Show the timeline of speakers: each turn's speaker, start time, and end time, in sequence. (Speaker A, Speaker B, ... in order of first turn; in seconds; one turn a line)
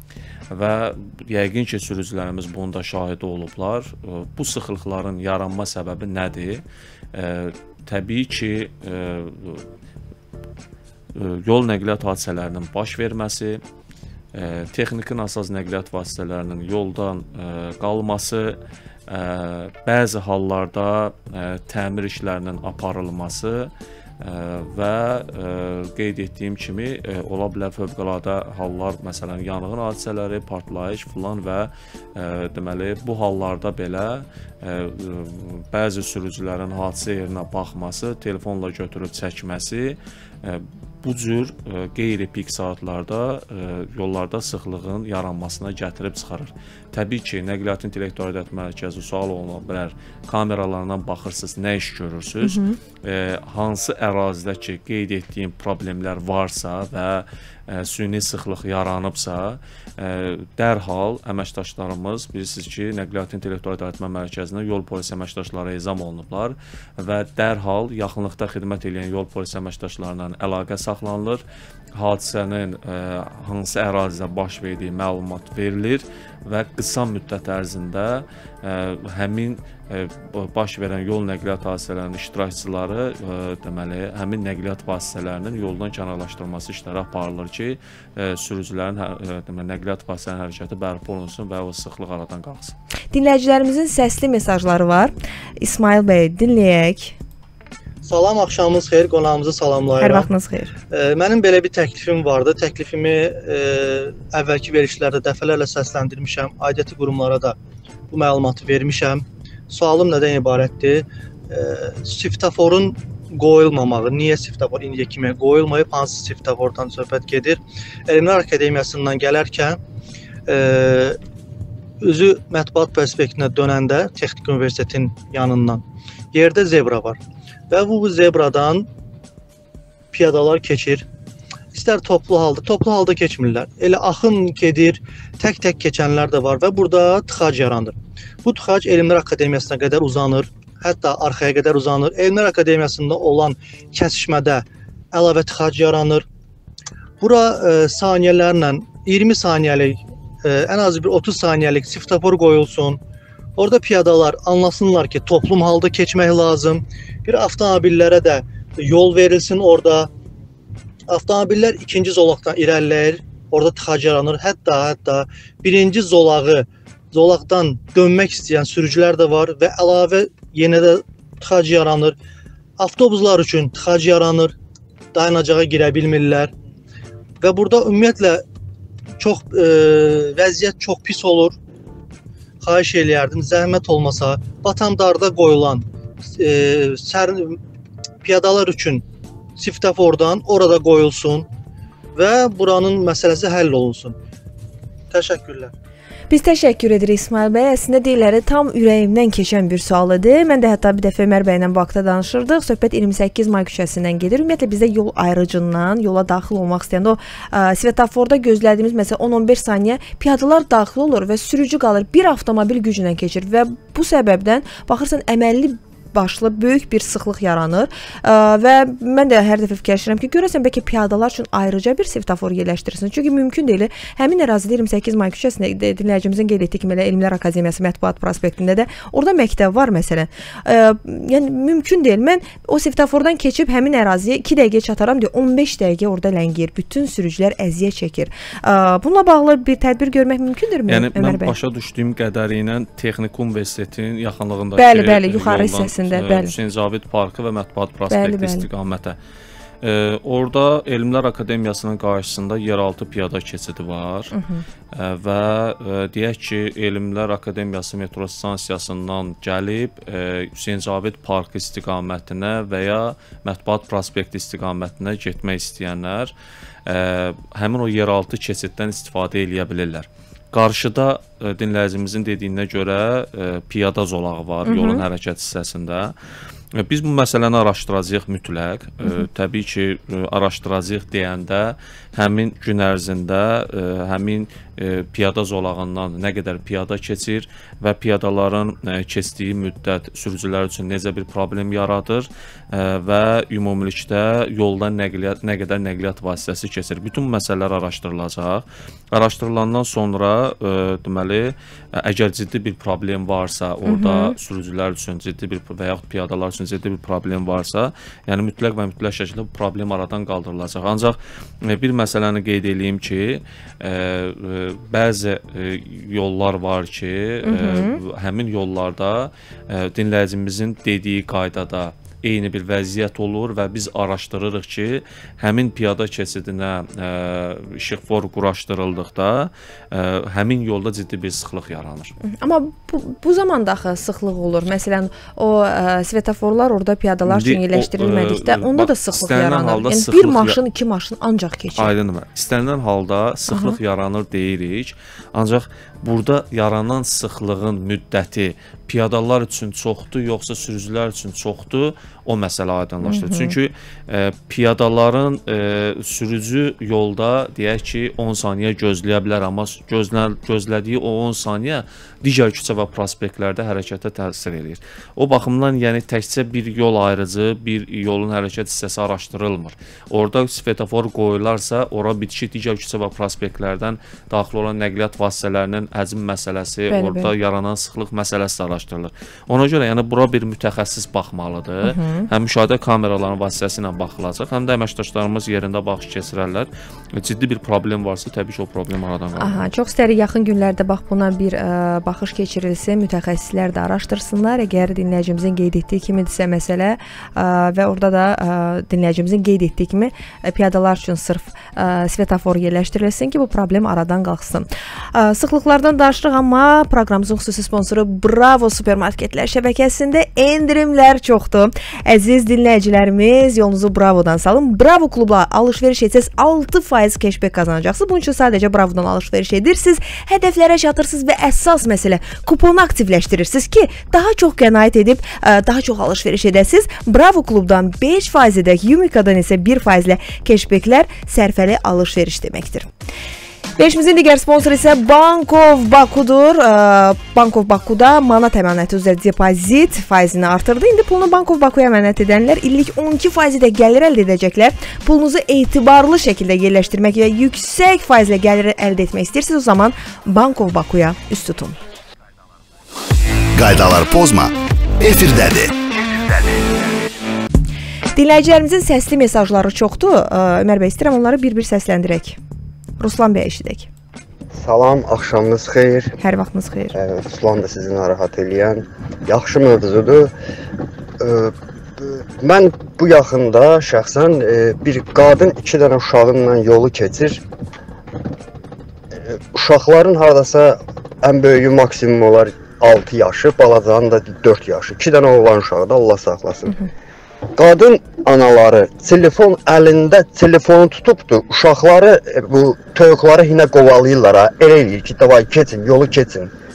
Speaker A: 0.5-9.6
Speaker A: 11.1-13.6
Speaker A: 14.3-71.4
Speaker B: 52.4-52.8
Speaker A: 72.0-92.8
Speaker B: 93.1-97.2
Speaker C: 98.0-100.3
Speaker B: 100.0-100.7
Speaker C: 100.9-107.5
Speaker C: 108.1-119.8
Speaker C: 120.5-121.2
Speaker C: 122.0-128.9
Speaker C: 130.1-131.1
Speaker C: 131.7-146.2
Speaker C: 147.2-153.0
Speaker C: 153.6-160.1
Speaker C: 161.1-172.2
Speaker C: 172.8-174.5
Speaker C: 175.1-176.5
Speaker C: 177.4-178.4
Speaker C: 179.2-181.6
Speaker C: 182.6-187.6
Speaker C: 188.2-191.5
Speaker C: 192.1-194.2
Speaker C: 195.1-195.7
Speaker B: 196.3-241.5
Speaker A: 240.9-249.2
Speaker B: 244.8-246.5
Speaker B: 248.1-248.7
Speaker A: 249.8-254.3
Speaker B: 254.3-254.6
Speaker A: 254.9-266.3
Speaker A: 266.9-276.1
Speaker B: 274.6-275.0
Speaker A: 276.7-332.1
Speaker B: 303.9-304.3
Speaker B: 317.4-318.0
Speaker B: 332.2-341.9
Speaker A: 337.3-340.6
Speaker A: 341.8-389.6
Speaker B: 343.5-343.8
Speaker B: 353.0-353.5
Speaker B: 376.9-377.3
Speaker B: 381.8-382.3
Speaker B: 389.4-432.9
Speaker B: 433.8-451.8
Speaker D: 453.6-455.7
Speaker B: 458.1-462.4
Speaker B: 463.0-463.9
Speaker E: 464.6-466.1
Speaker B: 466.2-466.9
Speaker E: 466.9-470.3
Speaker E: 471.2-477.4
Speaker E: 479.2-486.8
Speaker E: 487.6-496.5